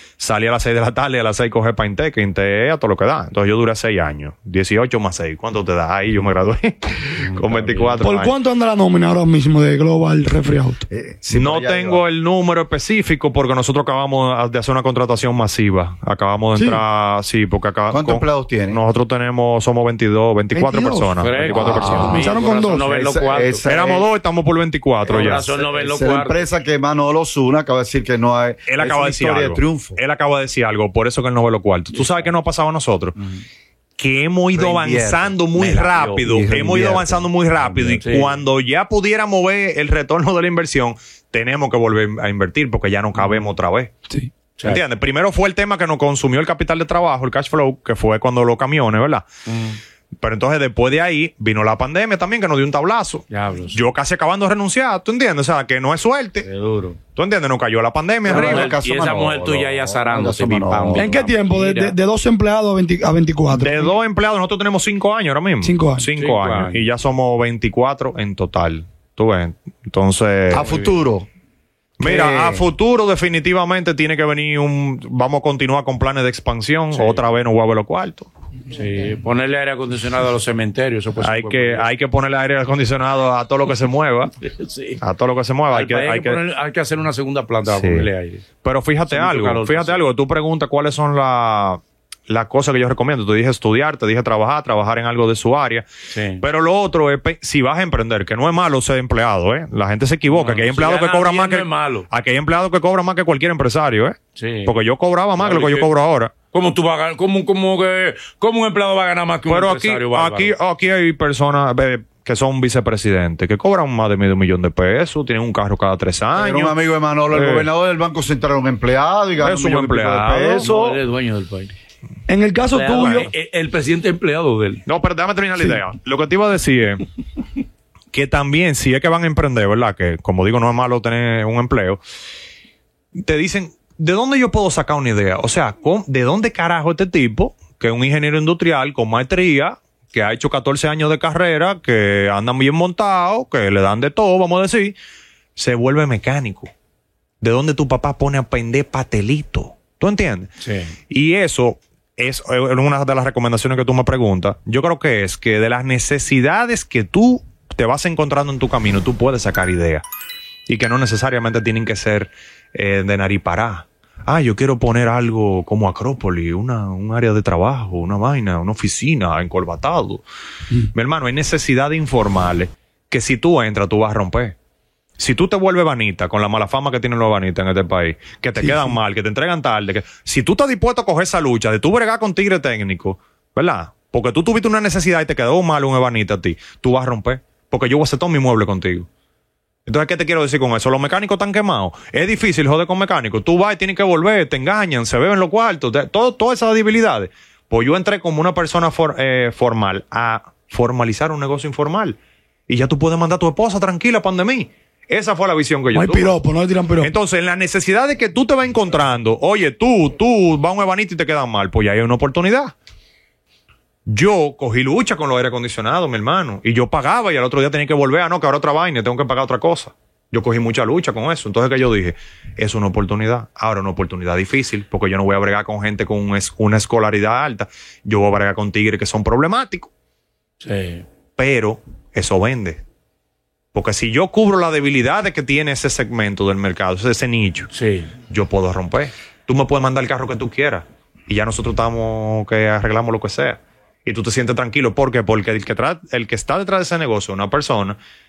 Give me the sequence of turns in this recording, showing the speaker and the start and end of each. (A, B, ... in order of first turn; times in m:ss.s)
0:00.2-0:08.4 A
0:07.3-0:08.0 B
0:08.0-0:10.8 C
0:10.9-0:12.0 D
0:11.3-0:22.2 A
0:16.6-0:16.8 C
0:17.9-0:18.8 D
0:20.5-0:22.9 C
0:21.2-0:23.6 B
0:21.5-0:24.1 D
0:23.6-0:25.5 A
0:25.0-0:26.4 B
0:25.4-0:30.0 D
0:28.7-0:33.2 A
0:31.9-0:32.2 B
0:34.0-0:43.9 A
0:34.5-0:38.4 D
0:35.6-0:36.2 B
0:38.0-0:38.3 B
0:43.2-0:43.5 B
0:44.6-0:49.2 A
0:49.5-0:49.8 B
0:50.2-0:56.4 A
0:53.3-0:53.8 B
0:56.4-0:57.0 B
0:57.2-0:58.7 A
0:58.2-1:01.1 D
0:58.3-1:02.0 B
1:00.9-1:03.9 C
1:03.5-1:10.7 A
1:05.6-1:06.1 C
1:06.2-1:06.8 B
1:10.5-1:11.3 D
1:10.6-1:10.9 B
1:12.0-1:18.3 A
1:12.0-1:12.7 D
1:16.9-1:17.2 B
1:18.7-1:21.9 B
1:21.2-1:24.3 A
1:24.4-1:25.0 B
1:25.0-1:26.4 A
1:25.7-1:28.4 B
1:27.7-1:28.1 A
1:28.6-1:35.9 A
1:29.1-1:30.0 B
1:36.1-1:36.4 B
1:36.4-1:46.3 A
1:40.3-1:42.1 B
1:44.4-1:44.7 B
1:45.4-1:45.9 B
1:46.5-1:50.5 B
1:49.5-1:56.8 A
1:56.4-2:01.0 D
1:57.3-1:57.7 A
1:59.4-2:00.7 A
2:00.5-2:01.7 B
2:02.3-2:03.3 C
2:02.7-2:04.8 B
2:03.0-2:03.2 A
2:04.8-2:07.0 A
2:08.1-2:12.0 A
2:13.1-2:24.9 A
2:25.6-2:26.7 A
2:27.4-2:30.5 A
2:30.6-2:30.9 B
2:31.1-2:40.0 A
2:40.7-2:50.2 A
2:50.9-2:54.5 A
2:55.2-3:09.1 A
3:09.8-3:22.2 A
3:22.7-3:26.4 A
3:25.9-3:27.1 C
3:27.0-3:32.7 A
3:34.1-3:49.9 A
3:50.6-3:51.0 B
3:51.4-3:52.8 A
3:53.7-3:57.7 A
3:57.7-3:58.1 B
3:58.3-4:08.0 A